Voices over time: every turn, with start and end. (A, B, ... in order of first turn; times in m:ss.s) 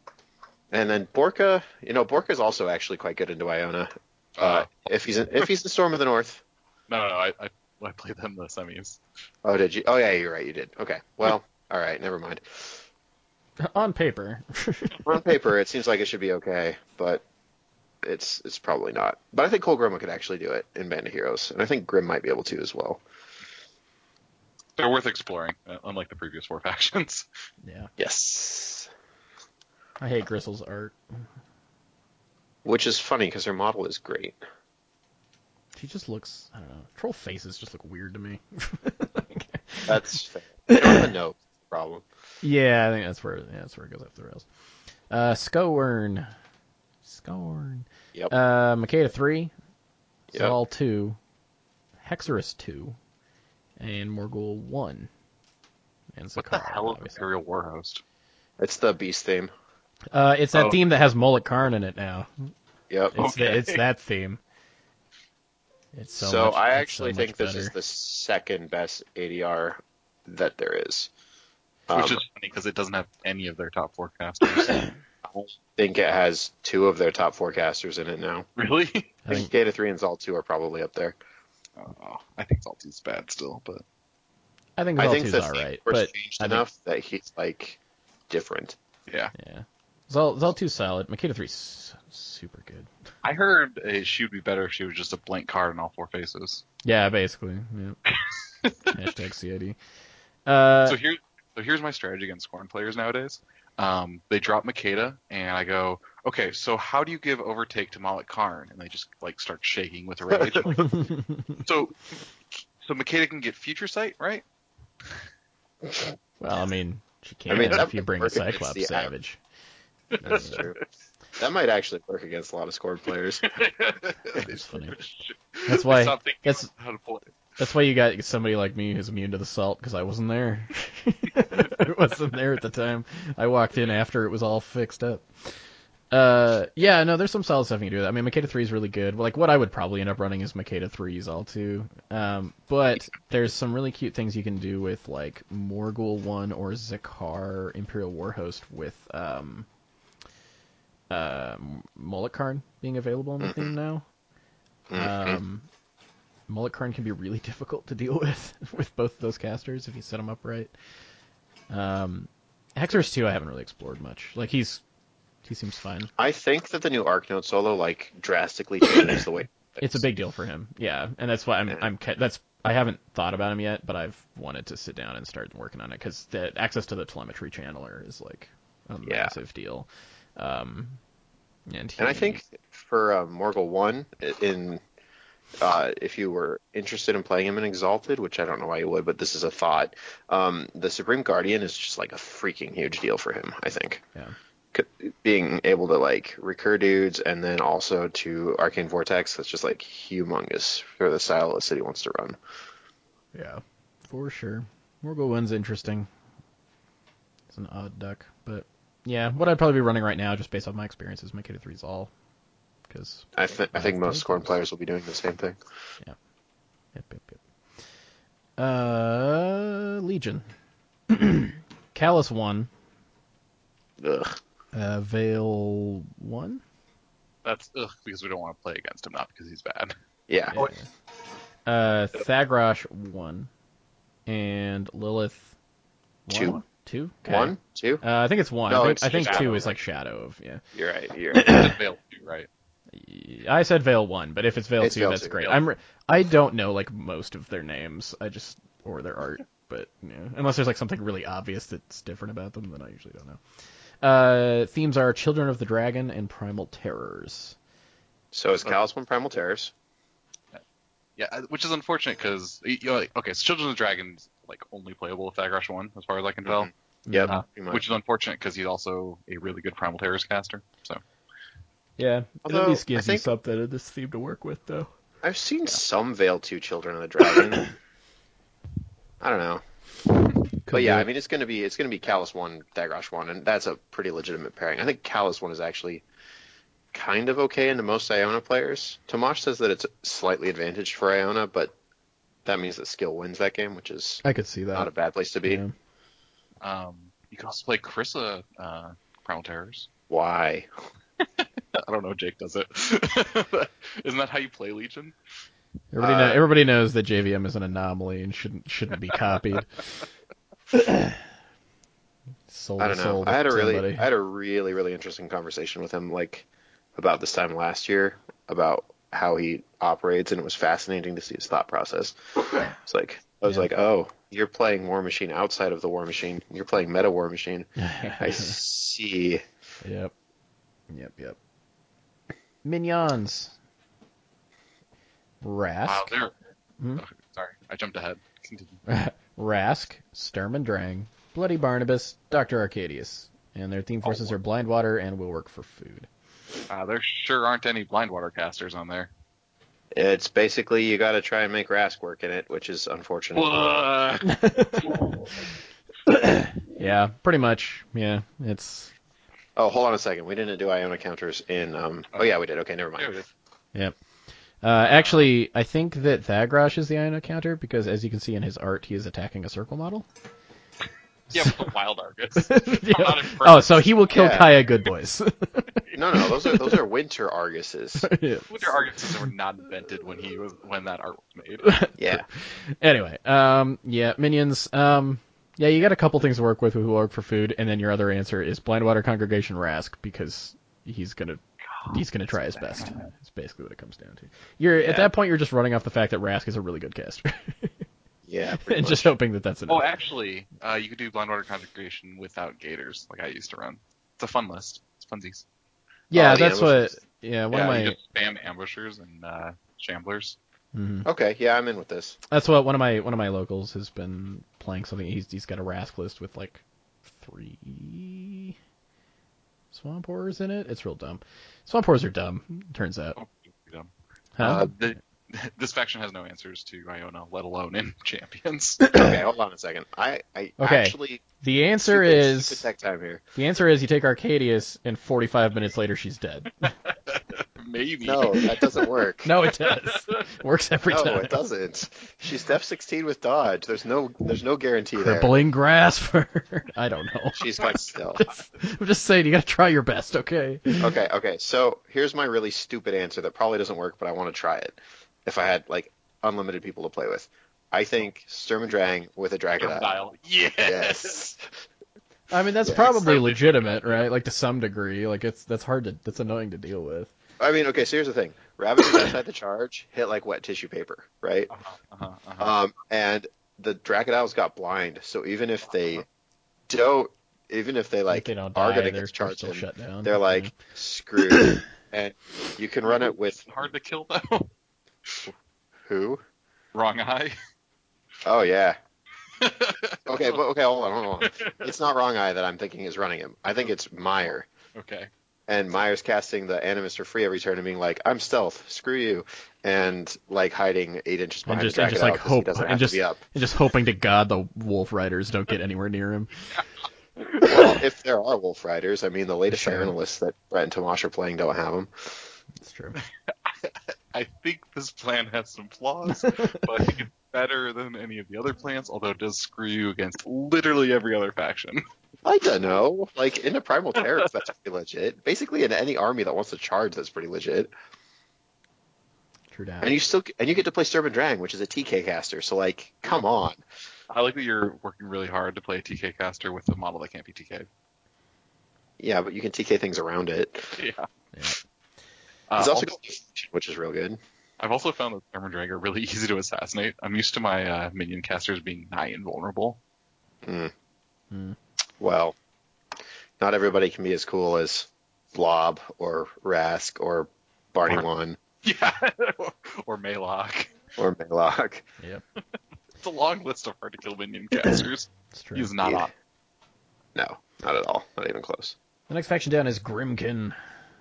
0:00.7-0:06.4 A
0:04.4-0:04.7 B
0:06.9-0:09.0 B
0:09.4-0:12.8 A
0:13.6-0:15.0 C
0:15.0-0:17.2 A
0:18.0-0:23.0 A
0:24.8-0:27.2 B
0:27.6-0:27.9 C
0:28.0-0:28.9 A
0:30.0-0:31.0 C
0:32.6-0:34.4 A
0:35.8-0:40.0 C
0:39.8-0:42.0 A
0:40.7-0:41.1 C
0:42.4-0:44.4 C
0:45.1-0:46.3 C
0:47.0-0:49.5 C
0:50.3-0:51.2 C
0:52.0-0:53.0 C
0:53.8-0:55.1 C
0:56.2-0:57.2 C
0:56.4-0:58.0 B
0:58.6-0:59.5 A
1:00.1-1:02.5 C
1:00.5-1:00.8 B
1:02.9-1:03.1 A
1:03.1-1:04.4 C
1:03.1-1:03.8 B
1:05.9-1:07.7 C
1:06.2-1:11.1 A
1:11.9-1:12.2 A
1:11.9-1:14.8 B
1:15.2-1:18.4 A
1:18.6-1:19.2 B
1:19.2-1:19.5 C
1:19.3-1:21.2 A
1:21.8-1:23.8 B
1:24.8-1:26.6 C
1:25.0-1:27.8 A
1:28.3-1:28.8 A
1:29.1-1:29.3 B
1:29.3-1:32.9 C
1:33.2-1:36.6 B
1:36.8-1:38.0 C
1:38.9-1:39.8 C
1:40.4-1:41.0 C
1:40.8-1:51.0 B
1:50.4-1:50.7 A
1:50.7-1:51.6 C
1:51.6-1:52.1 B
1:52.8-1:54.4 B
1:56.4-1:59.4 C
1:57.5-1:59.1 A
2:00.1-2:00.7 B
2:00.2-2:00.7 C
2:00.3-2:00.8 A
2:01.4-2:03.6 A
2:03.5-2:07.3 B
2:04.3-2:05.0 C
2:05.7-2:06.7 C
2:07.6-2:15.5 C
2:16.1-2:29.7 C
2:31.1-2:34.0 C
2:33.4-2:33.7 A
2:34.9-2:35.4 A
2:34.9-2:35.7 C
2:36.5-2:40.7 C
2:41.7-2:44.8 C
2:45.4-2:46.1 C
2:46.2-2:50.0 A
2:49.8-3:01.0 C
2:59.0-2:59.3 A
3:01.7-3:02.4 C
3:02.0-3:04.8 A
3:05.6-3:14.0 A
3:14.7-3:22.4 A
3:23.3-3:26.1 C
3:27.5-3:32.1 C
3:32.9-3:34.5 C
3:33.3-3:35.6 A
3:36.9-3:37.4 C
3:38.6-3:40.5 C
3:41.1-3:42.7 C
3:44.0-3:44.4 A
3:44.7-3:46.6 C
3:47.4-3:49.9 B
3:50.3-3:50.6 A
3:50.5-3:50.8 C
3:51.6-3:53.5 C
3:54.2-3:55.5 C
3:56.2-4:00.6 C
3:56.3-3:56.6 A
3:57.2-3:58.0 A
3:58.7-3:59.7 A
3:59.1-3:59.6 B
4:00.7-4:01.5 A
4:01.3-4:01.7 C
4:01.4-4:02.5 B
4:02.9-4:13.4 C
4:04.8-4:05.6 A
4:14.0-4:17.6 C
4:18.3-4:19.7 A
4:21.2-4:26.7 B
4:26.4-4:27.8 A
4:27.1-4:27.4 C
4:27.2-4:31.0 B
4:32.0-4:34.9 C
4:32.4-4:33.2 A
4:35.2-4:37.7 A
4:39.2-4:39.6 A
4:40.6-4:41.1 C
4:40.7-4:46.0 A
4:46.9-4:51.7 A
4:52.4-4:54.2 A
4:54.2-4:54.9 C
4:54.7-4:55.6 A
4:55.4-4:55.7 C
4:56.6-4:59.9 B
5:00.1-5:00.7 A
5:01.2-5:05.2 B
5:05.9-5:09.8 C
5:06.0-5:06.4 A
5:10.7-5:11.2 C
5:12.5-5:14.1 C
5:12.8-5:29.4 A
5:27.8-5:28.6 C
5:29.8-5:30.1 C
5:30.9-5:31.4 C
5:32.6-5:33.5 C
5:35.4-5:36.1 C
5:35.8-5:36.3 B
5:37.0-5:38.8 B
5:38.9-5:46.1 C
5:44.0-5:44.3 A
5:46.7-5:49.1 B
5:49.9-5:53.6 A
5:53.3-5:55.0 B
5:54.2-5:55.1 C
5:56.0-5:58.9 C
5:59.6-6:03.2 A
6:03.0-6:03.3 B
6:04.6-6:10.0 C
6:11.3-6:13.9 B
6:12.4-6:16.8 C
6:14.1-6:14.5 A
6:15.9-6:18.1 A
6:18.0-6:19.3 C
6:18.5-6:21.7 B
6:21.6-6:37.8 C
6:22.0-6:22.2 A
6:32.6-6:33.0 B
6:34.8-6:35.1 A
6:38.2-6:39.1 A
6:38.6-6:39.9 C
6:39.7-6:45.4 B
6:46.1-6:48.0 C
6:46.1-6:47.0 A
6:47.5-6:50.4 B
6:50.7-6:51.1 C
6:51.0-6:52.2 A
6:52.3-6:58.6 C
6:59.7-7:03.2 C
7:03.2-7:08.8 B
7:04.4-7:04.7 C
7:08.8-7:09.2 C
7:08.9-7:11.2 A
7:10.6-7:12.6 C
7:11.8-7:13.2 A
7:13.3-7:16.7 C
7:17.1-7:18.5 B
7:18.0-7:19.3 A
7:19.2-7:21.4 C
7:20.9-7:25.4 A
7:25.0-7:27.4 C
7:27.4-7:28.2 A
7:28.2-7:30.9 C
7:30.8-7:39.9 A
7:39.6-7:41.2 B
7:40.6-7:41.5 A
7:42.3-7:47.1 C
7:42.7-7:44.0 B
7:47.4-7:51.5 A
7:51.5-7:52.5 B
7:52.4-7:56.0 A
7:56.7-8:03.5 A
7:58.1-8:00.5 C
8:02.9-8:04.5 B
8:05.0-8:05.3 B
8:05.8-8:06.2 A
8:06.7-8:07.4 B
8:08.2-8:08.8 A
8:09.3-8:10.4 B
8:10.0-8:14.5 A
8:11.2-8:11.7 B
8:14.7-8:15.1 B
8:15.5-8:23.2 A
8:21.4-8:26.3 C
8:27.3-8:27.7 B
8:27.4-8:32.3 A
8:29.5-8:29.9 C
8:32.6-8:33.0 C
8:33.0-8:41.8 B
8:36.1-8:36.9 C
8:42.2-8:47.7 A
8:49.5-8:50.0 C
8:49.8-8:53.6 A
8:54.1-8:57.7 B
8:59.0-9:00.8 A
9:00.8-9:01.1 B
9:01.3-9:01.6 C
9:02.5-9:03.0 B
9:02.6-9:04.2 A
9:04.6-9:09.8 B
9:10.4-9:10.7 A
9:11.3-9:11.6 C
9:12.0-9:12.3 A
9:13.4-9:18.4 A
9:18.6-9:20.8 B
9:21.0-9:21.8 A
9:23.0-9:26.1 B
9:25.3-9:25.7 C
9:25.8-9:26.1 A
9:27.1-9:28.8 A
9:29.1-9:30.6 C